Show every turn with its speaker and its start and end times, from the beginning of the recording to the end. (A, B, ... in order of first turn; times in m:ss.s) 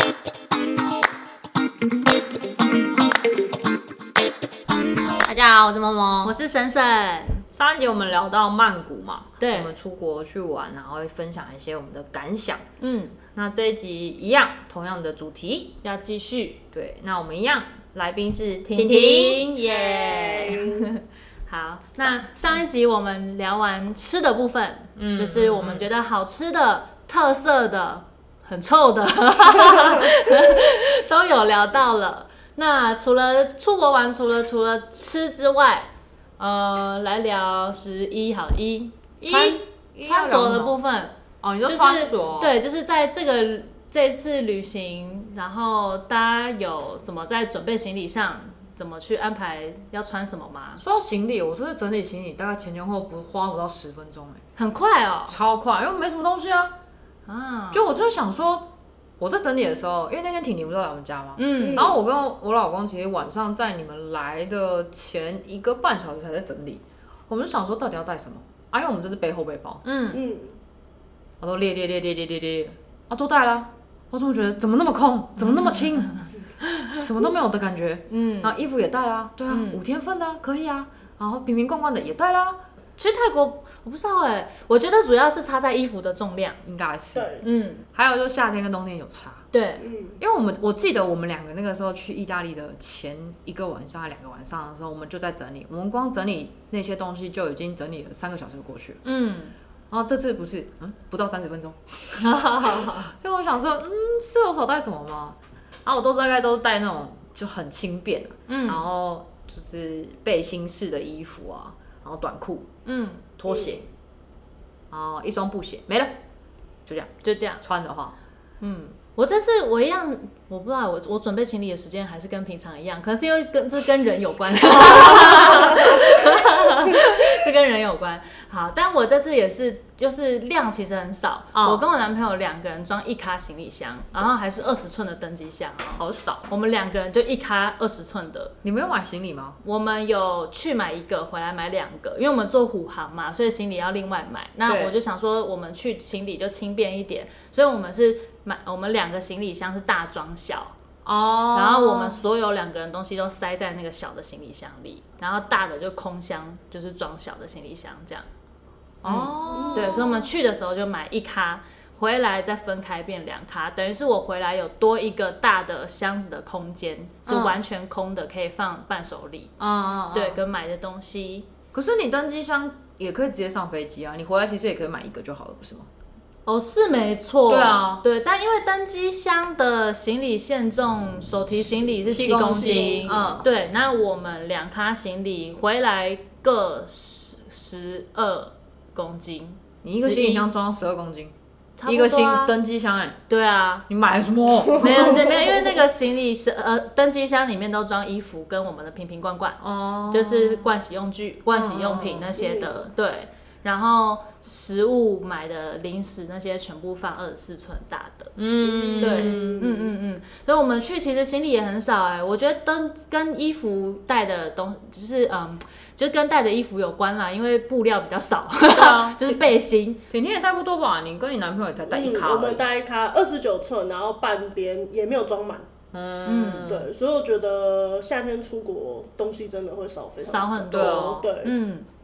0:05.1-0:06.3 A
0:06.2-0:07.4 B
0:07.5-0:12.6 A
0:09.4-0:09.7 B
0:12.8-0:13.2 B
0:13.3-0:15.8 A
0:15.8-0:16.6 B
0:16.7-0:20.7 A
0:18.7-0:50.8 B
0:20.4-0:20.9 C
0:25.0-0:25.9 A
0:39.2-0:40.8 A
0:41.4-0:42.5 A
0:50.8-0:54.4 A
0:54.6-0:55.4 B
0:55.3-0:56.8 A
0:57.3-0:57.9 B
0:57.7-1:10.2 A
1:01.4-1:02.0 B
1:01.6-1:02.0 C
1:10.1-1:10.5 C
1:11.4-1:16.2 A
1:15.5-1:15.9 B
1:16.9-1:22.6 A
1:18.1-1:18.5 B
1:19.5-1:19.8 B
1:23.0-1:26.6 B
1:26.6-1:27.4 A
1:27.1-1:27.4 C
1:27.4-1:27.8 B
1:27.9-1:29.5 A
1:29.5-1:29.8 B
1:29.8-1:30.2 C
1:30.2-1:39.0 A
1:39.0-1:39.5 B
1:39.9-1:52.7 A
1:42.2-1:43.1 B
1:48.5-1:48.8 B
1:52.8-1:53.2 B
1:53.4-1:53.9 A
1:54.9-1:56.2 A
1:56.8-1:58.1 A
1:57.2-1:57.6 B
1:58.6-2:18.6 B
2:04.7-2:06.2 A
2:11.5-2:11.8 A
2:16.0-2:16.5 A
2:18.6-2:19.6 A
2:19.6-2:30.7 B
2:24.6-2:25.0 A
2:31.0-2:32.2 A
2:31.5-2:38.3 B
2:39.0-2:40.1 A
2:39.0-2:49.5 B
2:39.5-2:40.2 C
2:47.2-2:47.6 A
2:49.6-2:50.4 A
2:50.1-2:51.5 B
2:51.7-2:55.9 A
2:56.4-3:10.5 B
2:57.5-2:58.0 A
3:02.0-3:03.5 A
3:09.8-3:11.3 A
3:11.8-3:12.5 B
3:11.8-3:13.2 A
3:13.3-3:13.9 B
3:13.9-3:15.4 A
3:14.8-3:15.8 C
3:14.8-3:28.3 B
3:19.6-3:20.7 A
3:21.5-3:22.3 A
3:22.4-3:22.8 C
3:28.4-3:29.8 A
3:28.6-3:29.7 C
3:29.0-3:40.0 B
3:38.7-3:39.5 A
3:40.1-3:42.6 A
3:41.9-3:45.7 C
3:45.9-3:46.9 A
3:46.2-3:46.7 B
3:46.7-3:51.5 C
3:50.2-3:51.8 B
3:50.7-3:51.3 A